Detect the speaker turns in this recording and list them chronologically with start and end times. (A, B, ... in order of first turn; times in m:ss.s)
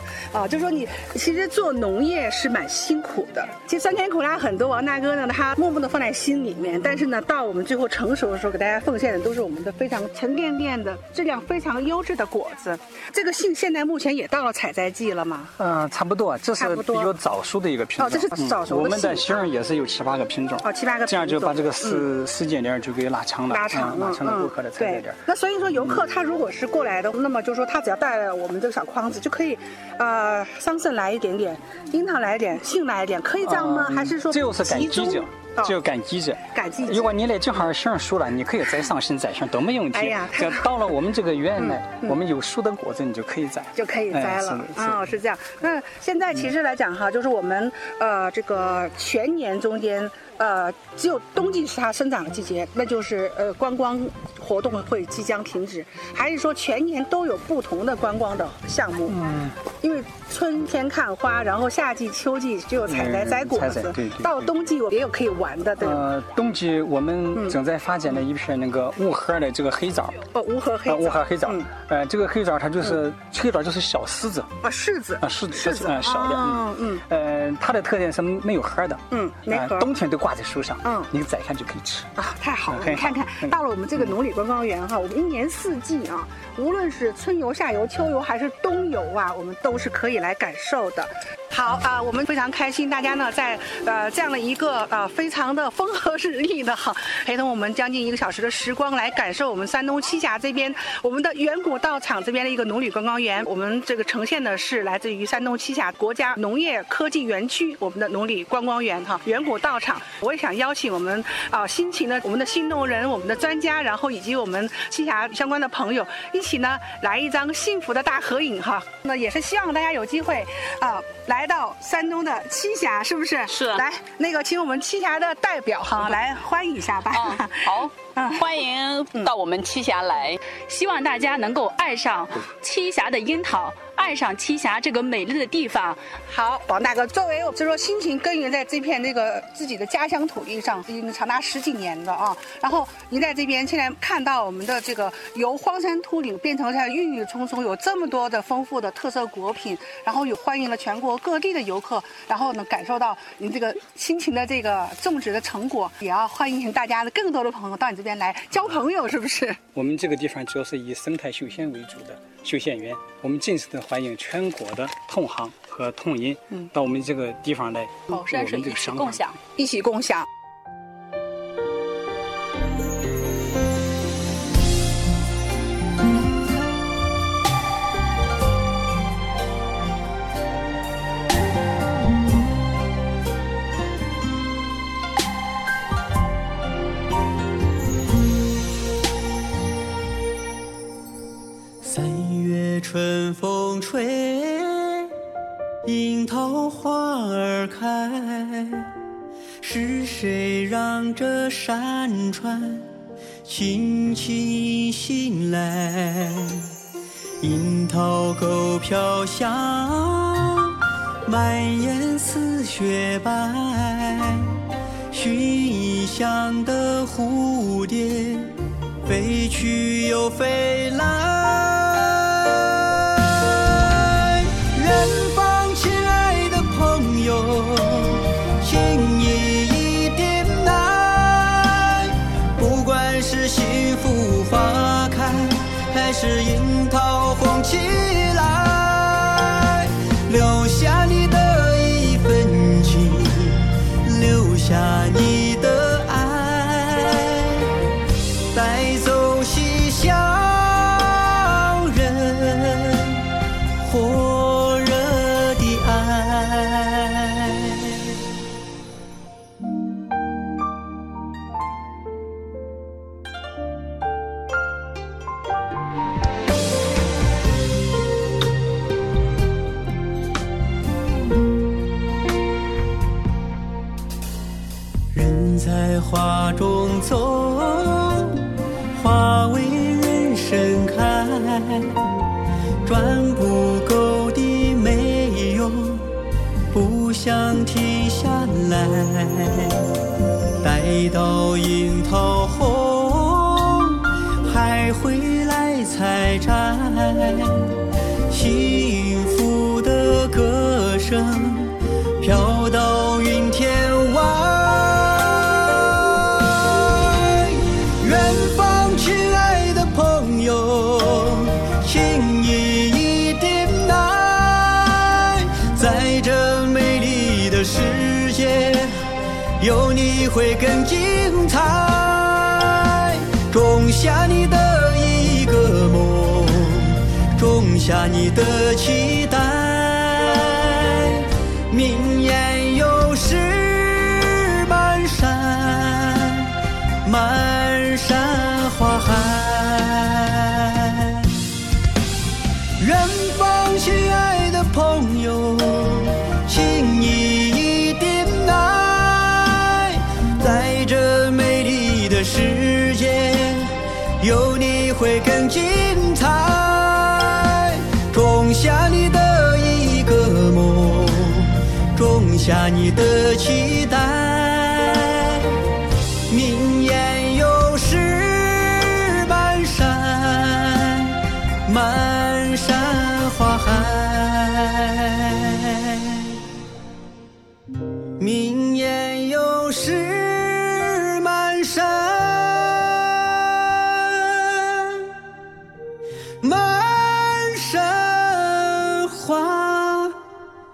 0:00.3-0:15.6 A
0:15.6-0:25.2 B
0:16.6-0:17.1 A
0:18.0-0:19.5 A
0:20.6-0:22.1 A
0:23.5-0:35.8 A
0:25.8-0:26.0 B
0:33.4-0:45.2 B
0:36.5-0:37.2 A
0:39.9-0:40.8 A
0:41.6-0:42.2 A
0:43.7-1:06.1 A
0:59.1-0:59.6 B
1:02.9-1:04.5 B
1:05.8-1:10.2 B
1:10.3-1:11.7 A
1:10.9-1:14.5 B
1:14.6-1:17.0 A
1:15.2-1:22.1 B
1:19.1-1:19.9 A
1:20.8-1:21.1 A
1:22.2-2:09.3 A
1:22.7-1:24.2 B
2:03.5-2:03.8 C
2:07.1-2:10.5 C
2:10.5-2:39.6 A
2:39.7-2:49.2 B
2:48.1-2:50.3 A
3:11.8-3:15.2 D
3:15.8-3:18.9 D
3:19.6-3:22.9 D
3:23.4-3:26.7 D
3:27.4-4:07.8 D
4:08.5-4:18.2 D
4:35.1-4:42.2 D
4:42.8-4:46.2 D
4:46.7-4:50.0 D
4:50.6-5:41.4 D
5:42.8-6:05.7 D
6:06.3-6:16.4 D
6:18.2-6:25.2 D
6:26.4-6:30.2 D